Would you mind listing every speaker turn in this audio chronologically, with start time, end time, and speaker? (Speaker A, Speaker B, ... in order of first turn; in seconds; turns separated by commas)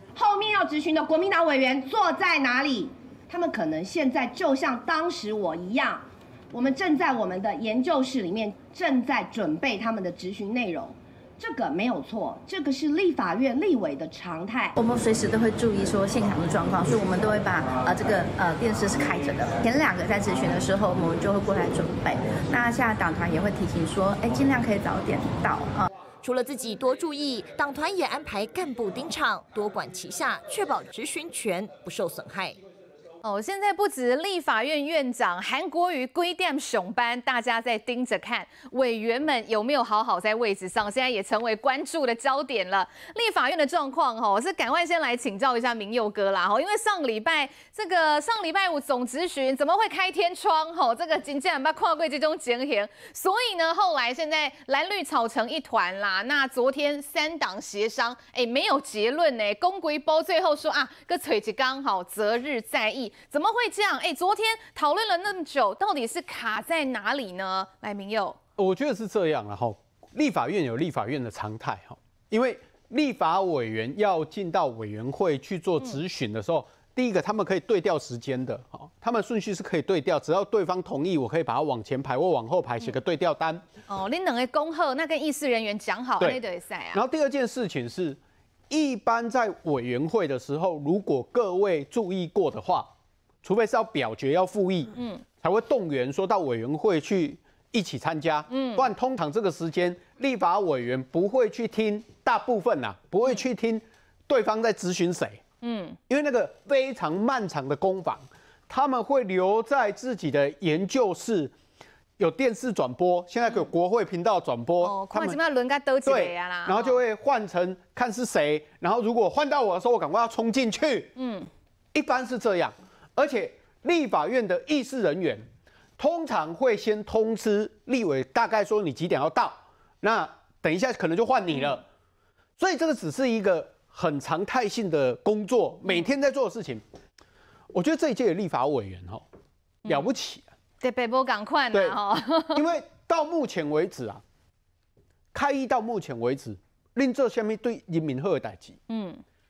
Speaker A: 0.1-14.7, Speaker B: 14.7-25.9, Speaker C: 26.2-32.6, Speaker D: 33.2-68.4, Speaker E: 68.6-83.6, Speaker D: 83.9-87.0, Speaker E: 86.9-88.2, Speaker E: 88.7-92.9, Speaker E: 93.4-105.4, Speaker D: 95.0-95.2, Speaker D: 98.5-98.9, Speaker D: 105.6-106.0, Speaker E: 106.1-111.5, Speaker E: 112.2-115.4, Speaker D: 114.8-117.0, Speaker E: 116.0-121.1, Speaker D: 121.2-121.5, Speaker E: 121.9-125.4, Speaker E: 126.0-131.8, Speaker E: 132.6-136.8, Speaker E: 137.7-139.2, Speaker E: 139.8-140.5, Speaker D: 140.8-142.6, Speaker E: 141.7-142.0, Speaker E: 142.5-144.2, Speaker E: 145.3-148.8, Speaker D: 148.9-149.2